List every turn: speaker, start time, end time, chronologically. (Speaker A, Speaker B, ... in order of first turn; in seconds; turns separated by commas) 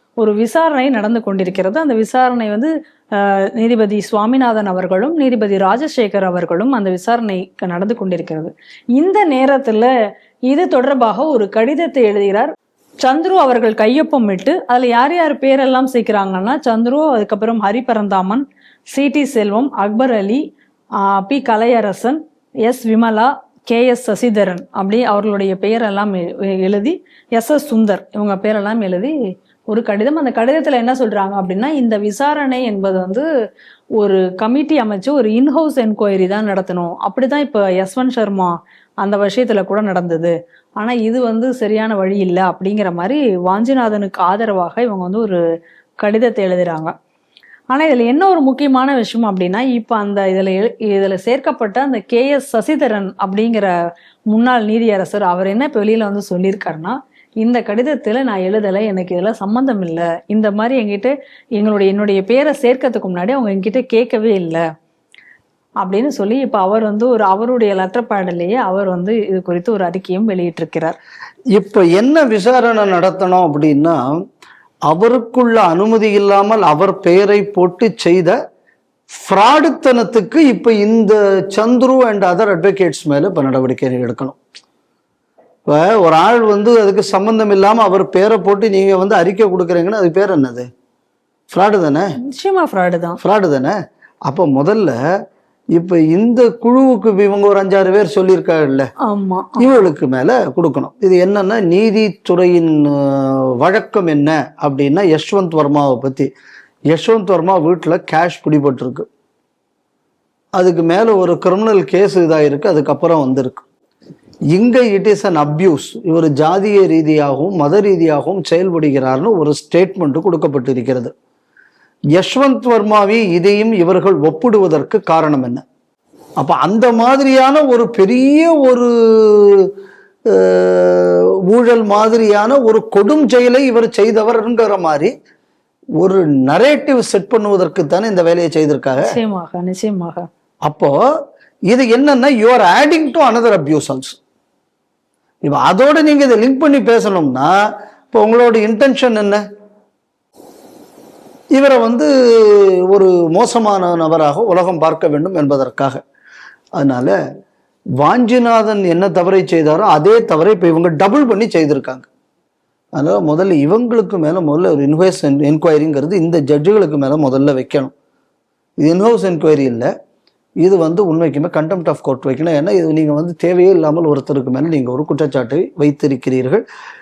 Speaker A: 0.2-9.9, Speaker A: 10.5-12.5, Speaker A: 13.0-20.4, Speaker A: 21.1-29.1, Speaker A: 29.7-33.2, Speaker A: 34.0-45.4, Speaker A: 46.0-46.9, Speaker A: 47.7-53.7, Speaker A: 54.3-64.6, Speaker A: 65.8-71.0, Speaker B: 71.5-74.1, Speaker B: 74.9-78.3, Speaker B: 79.1-84.4, Speaker B: 85.7-90.7, Speaker B: 91.5-92.0, Speaker A: 92.3-93.2, Speaker B: 93.2-93.7, Speaker B: 94.2-95.0, Speaker B: 95.7-98.9, Speaker A: 99.1-99.8, Speaker B: 99.6-106.3, Speaker B: 106.9-109.0, Speaker B: 110.5-113.6, Speaker B: 114.5-121.1, Speaker B: 122.1-125.6, Speaker B: 126.4-129.7, Speaker B: 130.3-135.1, Speaker B: 136.0-139.1, Speaker A: 139.0-140.2, Speaker B: 140.7-140.9, Speaker B: 141.7-144.2, Speaker B: 145.4-147.5, Speaker B: 148.1-149.4, Speaker B: 151.5-156.0, Speaker B: 156.8-157.1, Speaker B: 158.0-162.1, Speaker B: 162.9-167.9, Speaker B: 168.8-169.9, Speaker B: 170.6-176.6